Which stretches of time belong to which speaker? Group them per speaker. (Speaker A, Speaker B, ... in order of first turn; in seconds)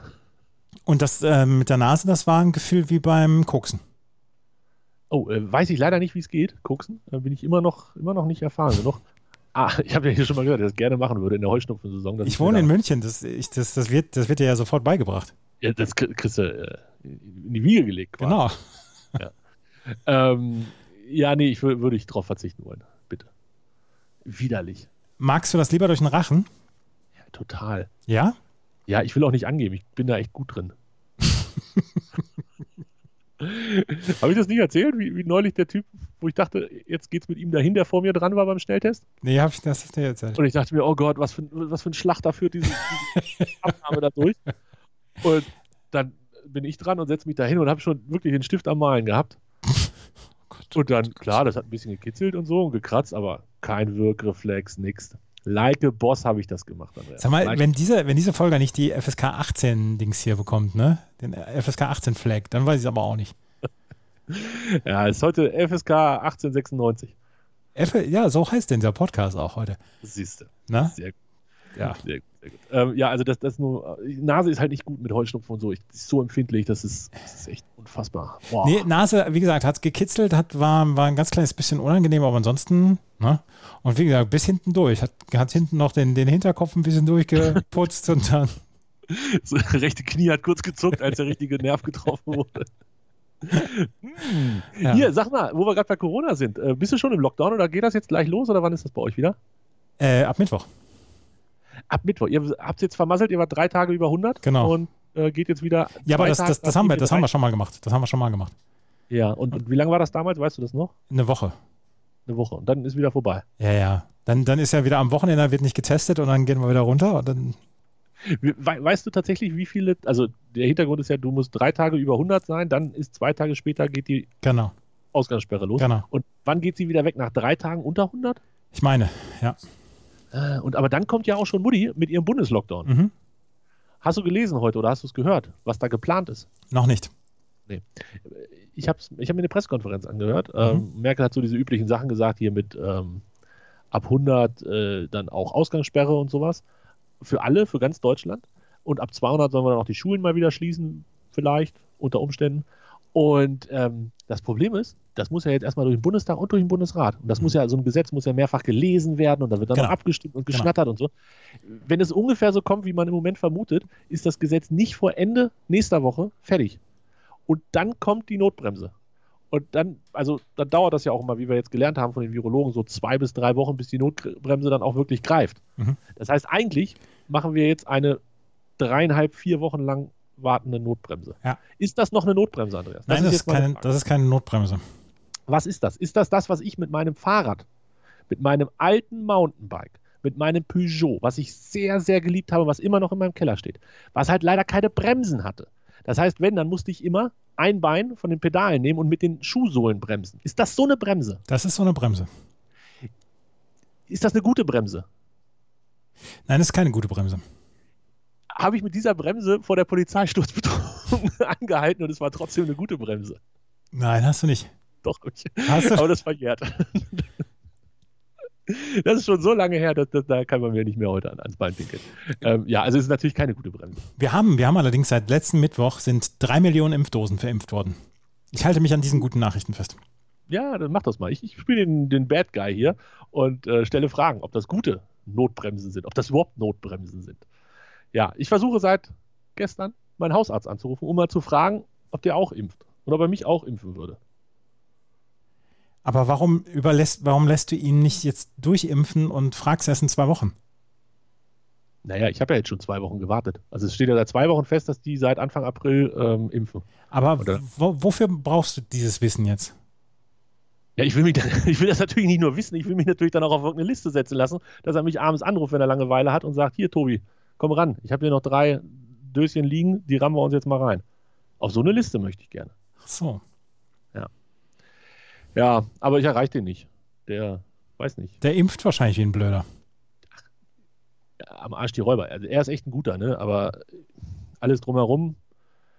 Speaker A: 0.8-3.8, 12.2-15.3, 18.2-18.6, 25.2-26.5, 28.1-28.4, 39.2-40.4, 50.5-50.8, 57.2-63.3, 67.8-69.8, 70.7-70.9, 78.6-88.6, 94.8-95.1, 100.0-100.7, 104.4-104.8, 106.0-108.5, 111.1-111.5, 113.6-117.6, 124.4-124.7, 125.8-126.0, 128.7-129.6, 132.8-133.1, 136.7-137.1, 183.1-184.8, 201.5-202.3, 206.5-207.4, 213.9-214.7, 215.7-216.1, 224.2-228.0, 228.5-230.0, 246.0-250.5, 257.1-259.7, 273.0-273.4, 278.4-279.6
Speaker B: 5.1-9.0, 9.5-12.7, 15.6-18.4, 19.9-23.3, 24.2-24.9, 27.3-27.9, 28.9-30.7, 33.4-39.0, 40.4-44.4, 45.2-49.4, 50.7-57.7, 64.3-67.1, 70.0-71.1, 71.8-78.9, 89.1-92.7, 93.4-99.3, 101.9-107.3, 109.1-110.9, 112.3-113.4, 118.2-124.3, 125.1-128.4, 130.3-132.9, 134.0-136.5, 137.7-143.2, 143.9-146.6, 147.2-161.1, 161.6-166.8, 167.5-168.9, 169.5-175.6, 176.2-178.2, 178.8-183.9, 185.5-187.7, 188.3-201.4, 204.1-205.1, 208.6-213.4, 215.0-217.4, 218.7-224.0, 230.5-237.4, 238.1-244.2, 252.0-256.8, 261.0-271.0, 271.6-272.7, 275.5-278.4, 281.4-284.0, 284.6-285.4